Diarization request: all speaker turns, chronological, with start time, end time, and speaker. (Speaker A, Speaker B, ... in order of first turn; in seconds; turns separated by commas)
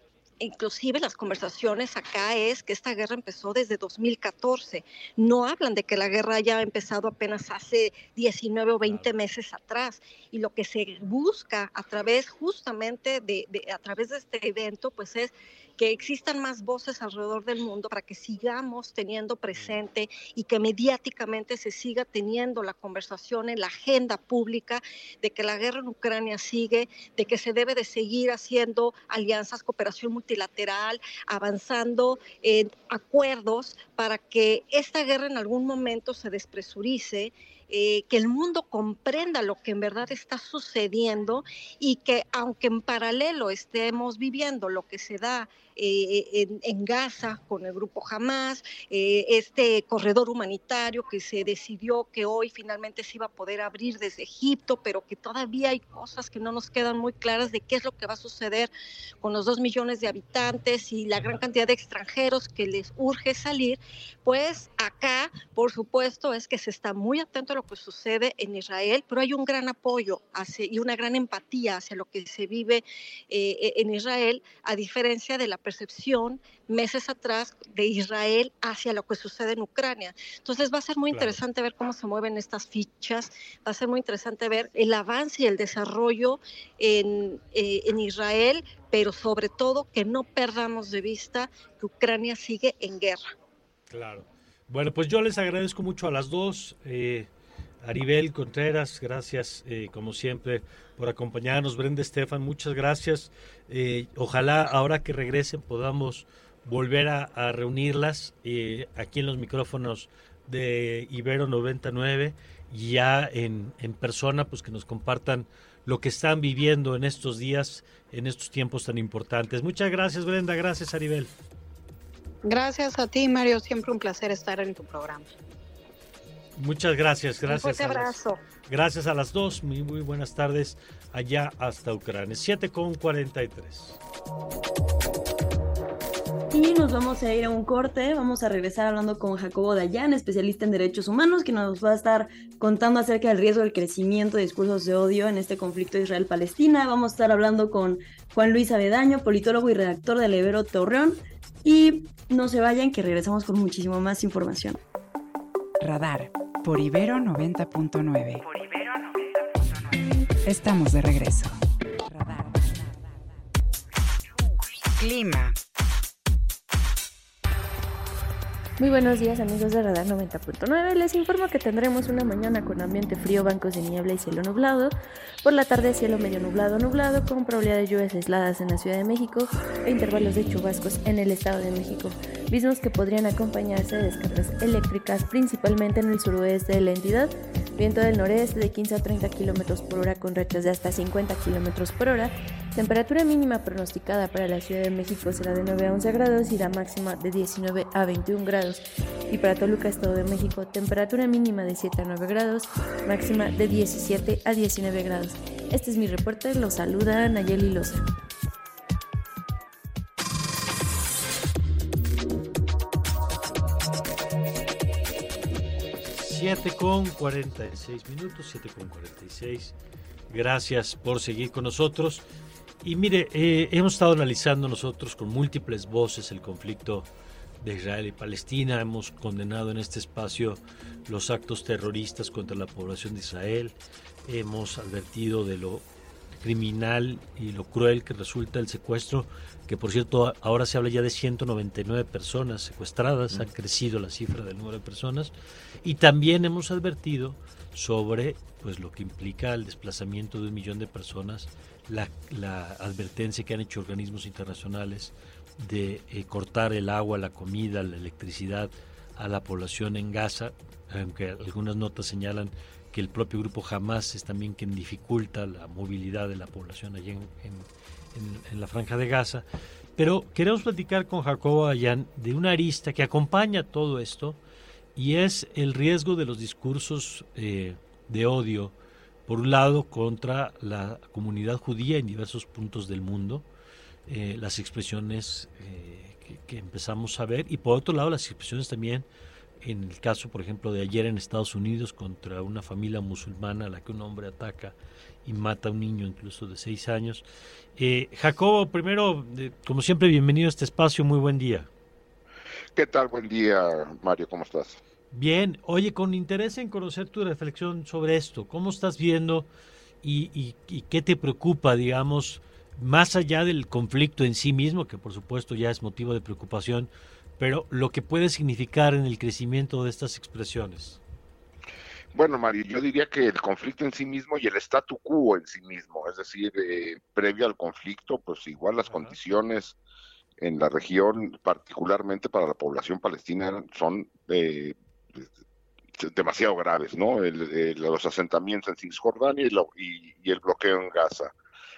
Speaker A: 0.4-93.3, Speaker B: 8.8-9.1, Speaker B: 81.1-81.4, Speaker B: 93.9-97.3, Speaker B: 97.8-121.3, Speaker C: 122.4-125.3, Speaker B: 126.6-134.0, Speaker C: 127.5-128.4, Speaker D: 136.5-154.8, Speaker E: 155.8-159.3, Speaker E: 160.4-161.6, Speaker E: 162.1-162.6, Speaker E: 165.0-165.5, Speaker F: 168.8-208.0, Speaker B: 216.1-219.7, Speaker B: 220.3-222.2, Speaker B: 222.8-227.1, Speaker B: 227.6-235.8, Speaker B: 236.4-269.4, Speaker B: 270.0-274.4, Speaker B: 274.9-278.7, Speaker B: 279.3-283.4, Speaker B: 284.1-289.1, Speaker B: 289.6-297.2, Speaker B: 297.8-301.7, Speaker G: 302.8-304.8, Speaker B: 305.1-309.5, Speaker B: 310.0-321.0, Speaker G: 322.1-329.8, Speaker B: 328.9-329.1, Speaker G: 330.4-335.3, Speaker G: 336.0-341.3